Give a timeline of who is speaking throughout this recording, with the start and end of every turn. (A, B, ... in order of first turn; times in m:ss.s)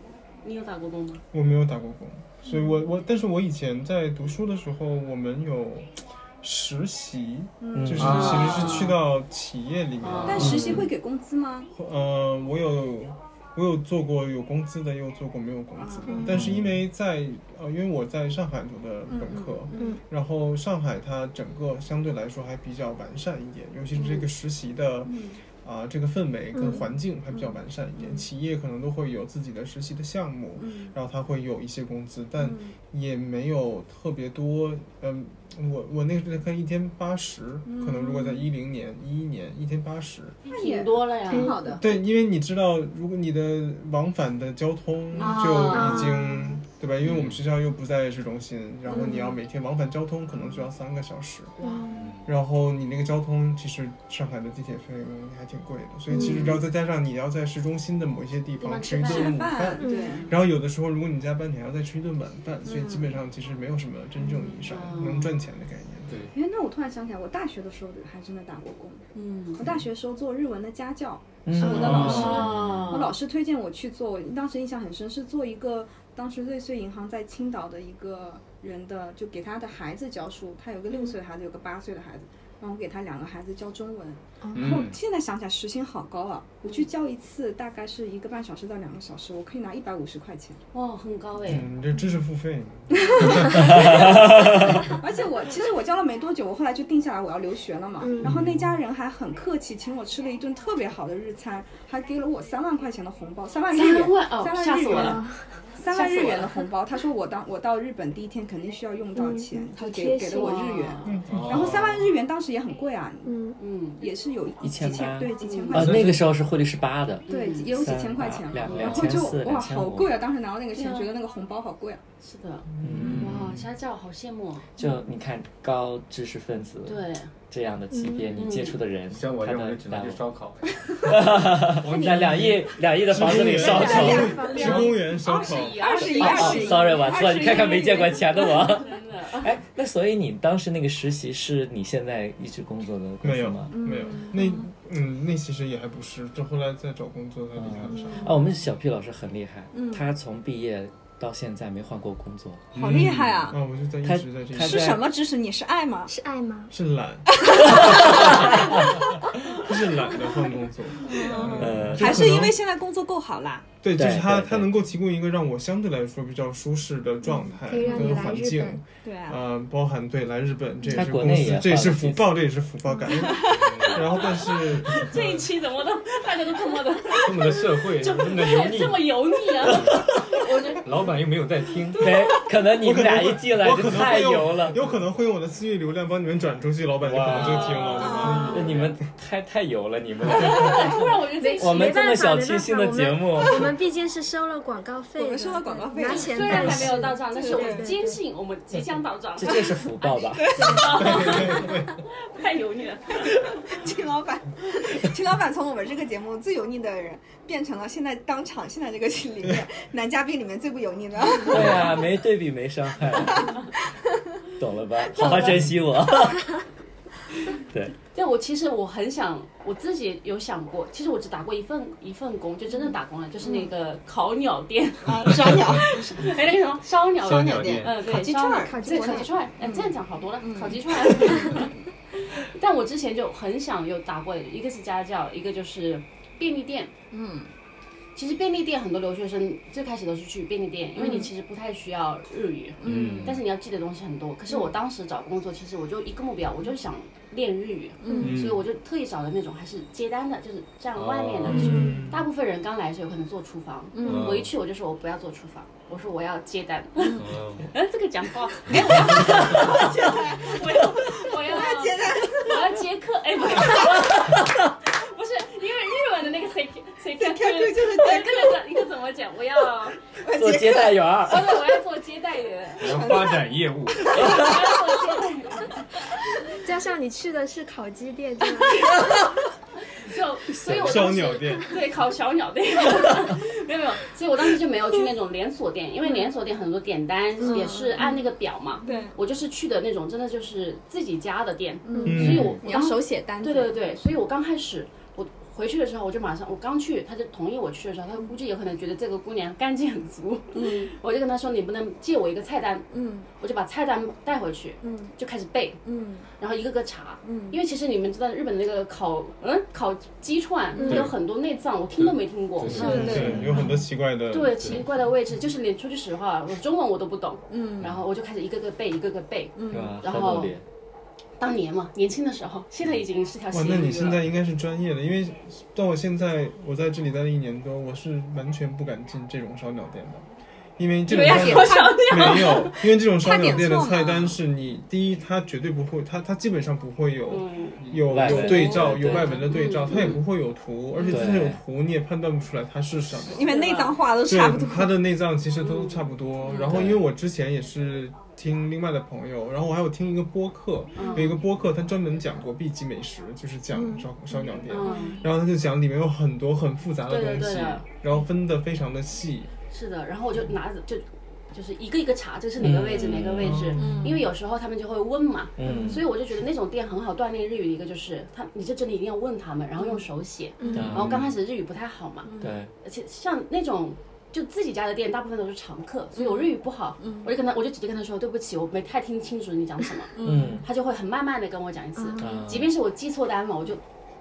0:00.4-0:01.2 A
0:01.3-0:10.8 B
0:07.6-0:08.9 C
0:07.8-0:08.3 D
0:08.0-0:08.8 E
0:08.0-0:08.9 A
0:10.0-0:10.7 A
0:10.1-0:10.8 E
0:10.2-0:11.7 C
0:10.4-0:10.9 D
0:11.7-0:40.4 B
0:15.8-0:16.3 C
0:16.1-0:16.5 F
0:16.3-0:16.6 E
0:19.1-0:20.0 C
0:19.8-0:20.0 F
0:23.9-0:24.3 A
0:25.0-0:25.4 C
0:26.5-0:26.9 F
0:27.3-0:28.3 C
0:30.6-0:30.9 C
0:32.4-0:32.7 C
0:37.6-0:38.5 C
0:40.5-0:41.6 A
0:40.5-0:41.9 C
0:41.3-0:41.8 F
0:41.8-0:51.5 B
0:45.2-0:46.1 A
0:45.2-0:45.7 C
0:45.7-0:46.6 F
0:47.0-0:47.4 E
0:48.9-0:49.3 C
0:51.6-0:52.1 F
0:51.9-0:52.3 E
0:52.2-1:06.2 B
0:56.1-0:56.5 F
0:56.2-0:56.5 A
0:58.6-1:00.3 A
0:59.0-1:00.3 C
0:59.8-1:00.3 F
1:02.6-1:03.1 C
1:04.6-1:05.3 A
1:06.3-1:30.6 C
1:09.1-1:09.6 A
1:11.4-1:12.5 D
1:11.7-1:12.6 E
1:11.8-1:13.1 A
1:24.4-1:24.8 F
1:24.5-1:25.0 E
1:30.7-1:31.7 A
1:31.4-1:34.2 B
1:33.0-1:34.4 C
1:33.6-1:34.8 D
1:35.0-1:45.2 C
1:38.0-1:38.3 F
1:38.2-1:38.8 B
1:43.7-1:45.2 A
1:44.9-1:45.6 F
1:45.7-1:53.4 C
1:45.9-1:46.7 A
1:49.1-1:50.9 F
1:50.3-1:51.2 A
1:51.0-1:51.9 B
1:51.3-1:52.0 E
1:53.2-1:53.6 F
1:53.6-1:54.0 A
1:54.0-1:56.2 C
1:54.6-2:00.2 D
1:55.4-1:55.9 A
1:55.7-1:56.2 E
1:57.3-1:57.7 A
1:57.3-2:02.0 C
1:58.6-1:59.3 A
2:00.7-2:01.1 A
2:02.2-2:04.7 A
2:02.8-2:03.6 D
2:02.8-2:03.6 E
2:04.8-2:10.2 D
2:06.8-2:07.3 A
2:07.9-2:08.4 F
2:08.4-2:08.8 A
2:09.1-2:11.1 E
2:11.0-2:14.4 D
2:11.8-2:12.7 E
2:13.1-2:16.0 B
2:13.3-2:18.7 C
2:13.8-2:15.0 F
2:13.9-2:16.9 A
2:16.0-2:23.7 D
2:18.6-2:19.5 A
2:23.2-2:28.3 B
2:23.7-2:24.6 C
2:27.5-2:32.7 D
2:28.0-2:28.2 F
2:29.7-2:30.0 C
2:32.7-2:33.6 C
2:32.8-2:33.4 E
2:32.8-2:35.0 B
2:34.0-2:35.0 D
2:34.6-2:36.1 C
2:36.1-2:36.7 F
2:36.7-2:38.9 B
2:37.3-2:38.8 C
2:37.6-2:38.7 D
2:39.5-2:42.6 B
2:41.0-2:43.7 C
2:41.2-2:41.8 E
2:41.6-2:42.5 D
2:43.8-2:55.4 B
2:43.9-2:44.7 D
2:47.6-2:48.8 F
2:47.8-2:48.1 A
2:49.0-2:49.4 C
2:50.9-2:52.4 D
2:53.1-2:53.6 C
2:53.4-2:55.1 E
2:53.9-3:00.8 A
2:57.2-3:00.1 E
2:59.9-3:00.2 D
3:00.8-3:02.1 E
3:02.0-3:04.8 D
3:02.8-3:08.8 B
3:07.0-3:11.1 D
3:07.1-3:09.0 E
3:07.5-3:08.5 A
3:07.9-3:08.7 C
3:10.3-3:12.0 A
3:11.4-3:18.2 F
3:11.6-3:13.8 D
3:15.2-3:18.0 C
3:16.0-3:23.6 A
3:19.4-3:21.0 D
3:19.5-3:19.8 C
3:20.3-3:21.4 C
3:20.5-3:21.6 F
3:21.0-3:21.9 B
3:23.2-3:32.0 C
3:31.4-3:33.5 D
3:33.1-3:33.7 C
3:34.6-3:36.5 D
3:35.2-3:35.5 A
3:37.7-3:37.9 D
3:38.1-3:56.9 A
3:43.4-3:43.7 C
3:45.0-3:46.3 C
3:47.2-3:51.7 C
3:47.2-3:48.0 E
3:48.6-3:49.3 F
3:57.1-3:57.5 C
3:58.2-4:30.0 A
4:01.0-4:01.3 C
4:02.8-4:03.4 C
4:02.8-4:03.4 E
4:08.0-4:08.4 C
4:08.0-4:08.4 F
4:08.2-4:08.6 E
4:10.9-4:12.0 E
4:11.4-4:12.2 B
4:11.5-4:11.9 C
4:11.6-4:12.0 F
4:13.9-4:14.4 C
4:14.0-4:14.5 E
4:17.0-4:17.3 C
4:17.1-4:17.7 E
4:18.6-4:22.8 C
4:24.2-4:24.5 D
4:27.2-4:28.6 C
4:30.2-4:31.1 C
4:30.3-4:31.6 D
4:31.2-4:33.1 A
4:32.8-4:34.4 E
4:32.8-4:34.8 C
4:34.1-4:35.8 A
4:34.2-4:34.5 D
4:36.6-4:39.2 F
4:38.8-4:39.2 A
4:39.9-5:02.9 A
4:40.6-4:41.8 B
4:47.4-4:48.2 F
4:47.4-4:48.1 C
4:48.8-4:49.2 C
4:51.8-4:53.8 C
4:51.9-4:52.3 F
4:52.1-4:52.6 B
5:00.5-5:00.9 C
5:02.9-5:03.3 C
5:03.4-5:05.8 A
5:04.8-5:05.1 C
5:05.8-5:06.3 C
5:06.4-5:13.7 A
5:07.2-5:07.6 C
5:10.8-5:11.1 C
5:10.8-5:11.1 E
5:12.0-5:13.6 E
5:12.7-5:13.6 C
5:12.8-5:14.8 B
5:12.8-5:13.4 D
5:14.3-5:20.6 A
5:17.5-5:17.9 C
5:19.6-5:20.0 C
5:19.7-5:20.6 D
5:21.4-5:24.2 A
5:23.5-5:30.2 B
5:30.8-5:43.5 B
5:31.0-5:32.8 A
5:31.1-5:34.4 C
5:37.3-5:37.8 A
5:37.8-5:38.5 E
5:38.1-5:39.5 D
5:38.4-5:40.2 A
5:41.0-5:41.3 C
5:41.1-5:41.6 D
5:43.2-5:45.0 C
5:43.3-5:44.0 A
5:44.2-5:59.5 B
5:45.6-5:46.9 A
5:46.7-5:47.0 D
5:50.9-5:51.4 A
5:51.0-5:51.3 C
5:53.7-5:54.7 F
5:54.7-5:55.2 A
5:54.8-5:55.2 C
5:57.0-5:57.9 A
5:59.7-6:12.3 A
6:02.6-6:03.8 D
6:03.4-6:03.9 B
6:03.8-6:04.2 C
6:05.6-6:06.0 D
6:05.6-6:06.0 C
6:09.8-6:10.0 C
6:10.6-6:10.9 F
6:10.6-6:10.9 C
6:10.7-6:11.3 D
6:12.2-6:12.6 C
6:12.4-6:12.7 D
6:12.8-6:23.8 A
6:16.2-6:17.3 C
6:20.1-6:20.6 C
6:20.2-6:20.6 D
6:22.0-6:22.5 F
6:22.2-6:22.7 D